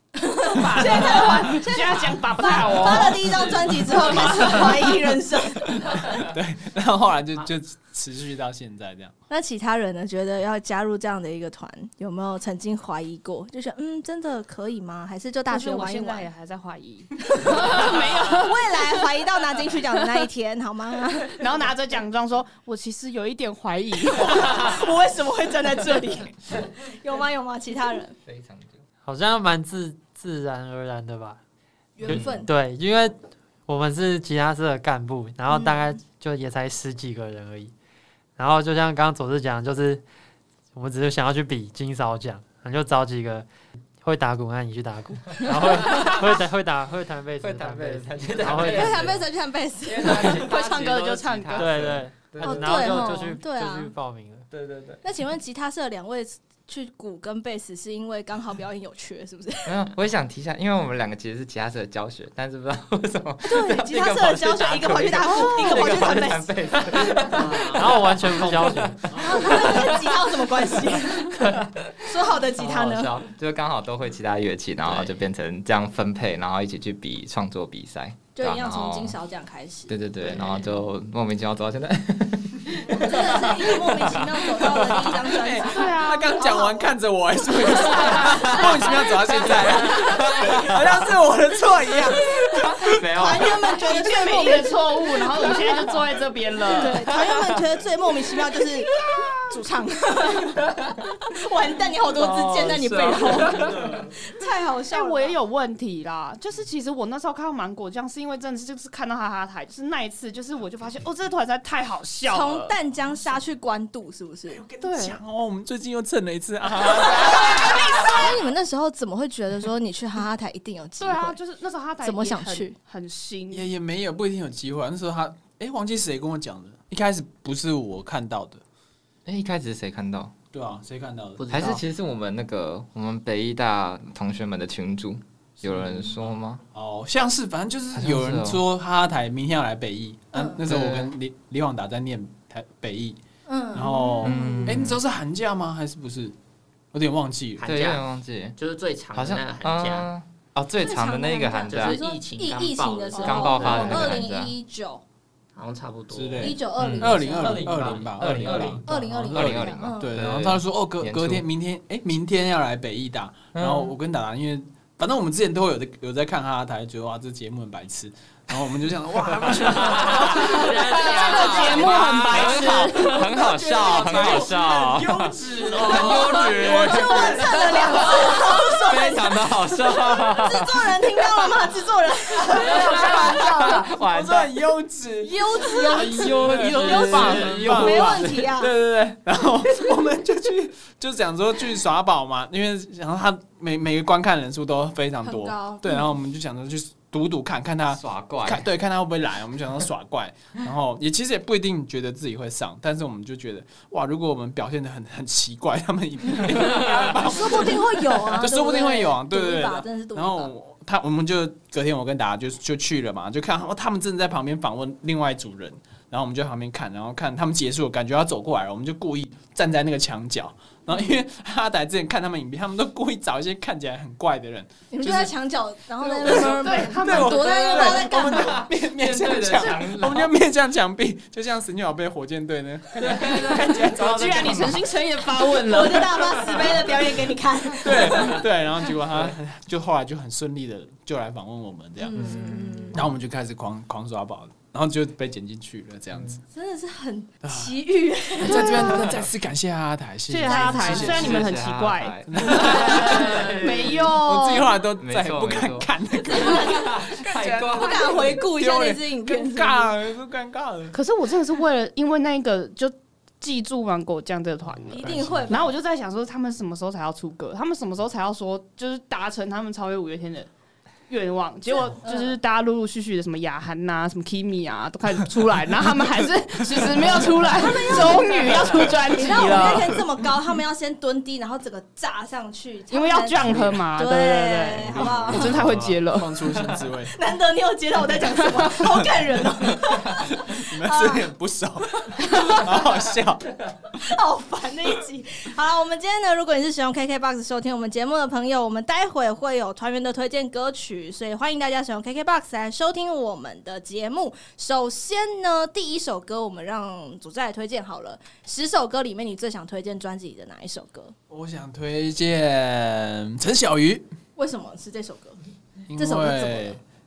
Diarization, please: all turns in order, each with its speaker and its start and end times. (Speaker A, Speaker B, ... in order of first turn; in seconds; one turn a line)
Speaker A: 0.2-6.1
Speaker B: 0.4-4.8
Speaker C: 0.8-1.3
Speaker C: 3.0-5.0
Speaker C: 5.6-9.1
Speaker A: 9.3-16.3
Speaker B: 15.5-19.0
Speaker A: 17.3-21.4
Speaker B: 21.3-24.8
Speaker A: 24.1-28.2
Speaker D: 28.2-28.8
Speaker E: 29.0-31.4
Speaker A: 31.9-32.5
Speaker E: 32.0-33.1
Speaker D: 32.1-32.4
Speaker E: 33.7-37.7
Speaker A: 35.5-36.0
Speaker E: 38.4-40.0
Speaker E: 40.7-43.5
Speaker E: 44.0-49.2
Speaker D: 45.9-46.1
Speaker D: 47.4-49.2
Speaker A: 48.6-51.5
Speaker D: 49.8-53.3
Speaker B: 50.3-51.7
Speaker E: 51.5-54.5
Speaker A: 52.4-53.9
Speaker D: 54.5-55.0
Speaker A: 55.0-59.8
Speaker D: 59.7-70.1
Speaker A: 63.4-66.5
Speaker B: 65.3-65.9
Speaker F: 67.4-67.8
Speaker E: 67.5-69.1
Speaker A: 69.1-71.3
Speaker D: 70.8-79.2
Speaker A: 72.0-73.1
Speaker A: 78.3-79.9
Speaker D: 79.9-84.3
Speaker A: 83.0-86.9
Speaker C: 84.6-92.8
Speaker B: 85.7-86.5
Speaker A: 87.7-88.7
Speaker D: 88.1-88.7
Speaker D: 90.0-90.8
Speaker D: 92.8-93.7
Speaker A: 92.9-94.8
Speaker B: 93.8-97.0
Speaker A: 96.8-98.9
Speaker D: 97.1-97.6
Speaker B: 98.9-99.4
Speaker A: 99.5-100.6
Speaker D: 100.6-101.1
Speaker A: 101.3-105.3
Speaker D: 102.1-104.1
Speaker C: 103.7-104.0
Speaker B: 104.9-112.7
Speaker A: 112.3-114.6
Speaker C: 114.5-118.3
Speaker B: 114.8-115.2
Speaker A: 117.0-121.4
Speaker B: 117.5-118.2
Speaker B: 121.0-123.7
Speaker A: 122.0-122.8
Speaker C: 123.5-128.6
Speaker D: 129.2-130.3
Speaker C: 130.5-131.5
Speaker F: 131.4-131.8
Speaker D: 131.5-136.6
Speaker C: 135.7-143.2
Speaker D: 137.9-138.6
Speaker A: 140.3-140.6
Speaker D: 140.6-141.1
Speaker A: 143.5-144.3
Speaker C: 143.7-146.3
Speaker D: 144.2-145.0
Speaker B: 144.4-144.7
Speaker C: 146.9-147.7
Speaker F: 147.6-150.1
Speaker D: 147.6-148.6
Speaker D: 149.1-152.0
Speaker A: 150.8-155.0
Speaker F: 151.7-154.2
Speaker D: 153.1-154.5
Speaker F: 155.5-156.6
Speaker C: 156.1-171.6
Speaker A: 156.4-157.7
Speaker D: 156.8-161.4
Speaker F: 157.4-158.8
Speaker A: 158.8-160.1
Speaker D: 163.5-163.9
Speaker D: 169.8-181.5
Speaker A: 170.1-170.5
Speaker B: 170.4-173.5
Speaker F: 170.4-172.2
Speaker A: 171.0-171.6
Speaker C: 173.4-178.6
Speaker A: 173.7-174.5
Speaker A: 175.8-183.1
Speaker C: 182.4-225.3
Speaker D: 182.4-184.6
Speaker A: 185.2-188.7
Speaker D: 185.8-188.4
Speaker A: 195.2-196.1
Speaker D: 197.9-198.7
Speaker A: 207.2-210.5
Speaker A: 224.9-228.7
Speaker C: 226.0-234.9
Speaker B: 226.2-227.9
Speaker D: 228.3-230.3
Speaker D: 233.0-234.7
Speaker B: 233.8-236.3
Speaker A: 235.4-238.4
Speaker D: 236.5-236.8
Speaker C: 237.8-242.3
Speaker A: 242.0-243.0
Speaker D: 242.2-243.0
Speaker C: 242.9-246.4
Speaker A: 246.5-249.2
Speaker C: 247.4-247.7
Speaker C: 248.4-251.6
Speaker B: 248.4-249.0
Speaker B: 250.3-254.7
Speaker A: 250.4-251.1
Speaker D: 250.8-254.1
Speaker C: 252.3-261.0
Speaker D: 255.0-258.4
Speaker A: 256.3-257.1
Speaker A: 257.7-259.9
Speaker B: 260.9-265.0
Speaker A: 264.9-265.6
Speaker C: 265.0-265.4
Speaker D: 265.1-265.5
Speaker B: 265.5-270.5
Speaker B: 271.1-280.0
Speaker A: 271.7-272.4
Speaker A: 277.5-285.6
Speaker B: 282.9-286.3
Speaker C: 283.4-283.8
Speaker C: 284.8-287.1
Speaker D: 285.4-286.0
Speaker A: 287.1-291.3
Speaker B: 288.4-288.9
Speaker C: 289.6-293.5
Speaker A: 291.9-292.7
Speaker A: 294.0-311.1
Speaker C: 311.3-314.1
Speaker A: 314.4-315.4
Speaker C: 315.9-316.8
Speaker A: 315.9-316.8